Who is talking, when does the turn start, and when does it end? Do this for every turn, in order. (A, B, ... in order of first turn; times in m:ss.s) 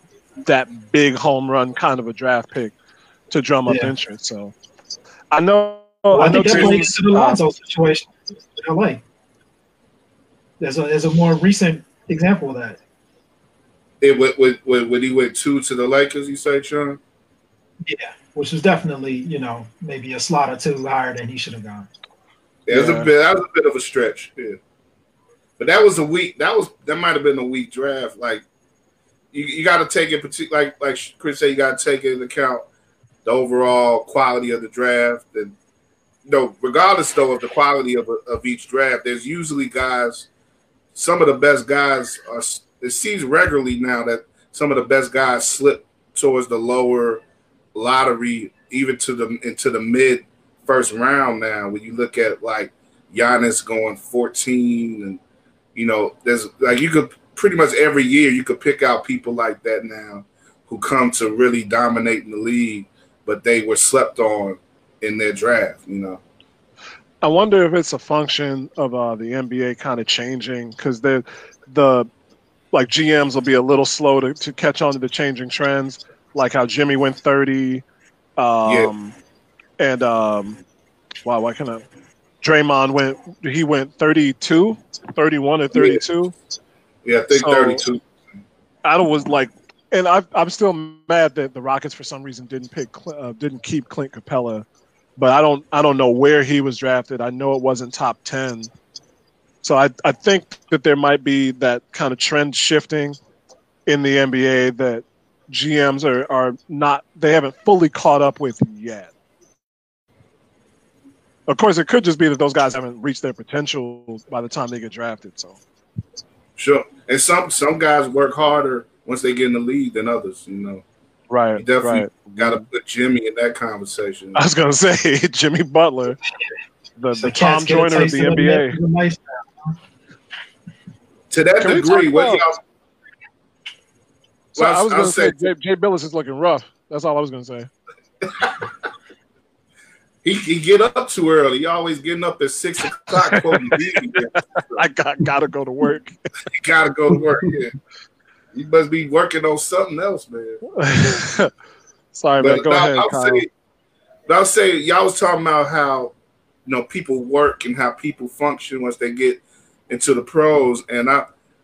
0:00.4-0:02.7 A
0:03.3-0:04.5 A
0:03.6-0:03.9 B
0:05.3-0:07.4 A
0:06.1-0:09.0 B
0:06.4-0:06.8 C
0:10.6-0:12.8 B
0:14.0-0:17.0 C
0:17.8-0:21.9 B
0:22.7-0:24.6 C
0:22.7-0:23.1 A
0:25.6-0:28.4 C
0:29.3-0:32.6 C
0:33.2-0:35.5 C
0:36.2-0:40.3 C
0:40.9-0:55.2 C
0:55.7-1:06.2 C
1:07.2-1:12.1 A
1:12.7-1:17.8 A
1:18.4-1:19.1 A
1:18.6-1:18.9 C
1:19.8-1:20.6 A
1:21.2-1:21.8 A
1:22.4-1:26.3 A
1:25.7-1:26.0 C
1:27.0-1:28.0 C
1:27.3-1:27.8 A
1:28.8-1:34.6 A
1:35.2-1:38.7 A
1:39.6-1:43.2 A
1:43.9-1:49.1 A
1:51.5-1:55.6 A
1:56.6-2:00.8 C
2:01.3-2:02.5 A
2:01.6-2:04.4 C
2:04.3-2:06.2 A
2:07.0-2:08.8 A
2:07.1-2:09.8 B
2:11.3-2:12.6 C
2:11.6-2:12.4 A
2:14.5-2:17.7 A
2:14.6-2:15.5 C
2:18.2-2:18.6 C
2:20.2-2:24.8 C
2:23.3-2:24.1 A
2:24.7-2:26.1 A
2:26.5-2:27.7 C
2:28.5-2:30.6 C
2:30.7-2:31.5 A
2:32.1-2:33.4 A
2:32.4-2:33.5 C
2:34.3-2:36.1 C
2:36.6-2:41.3 C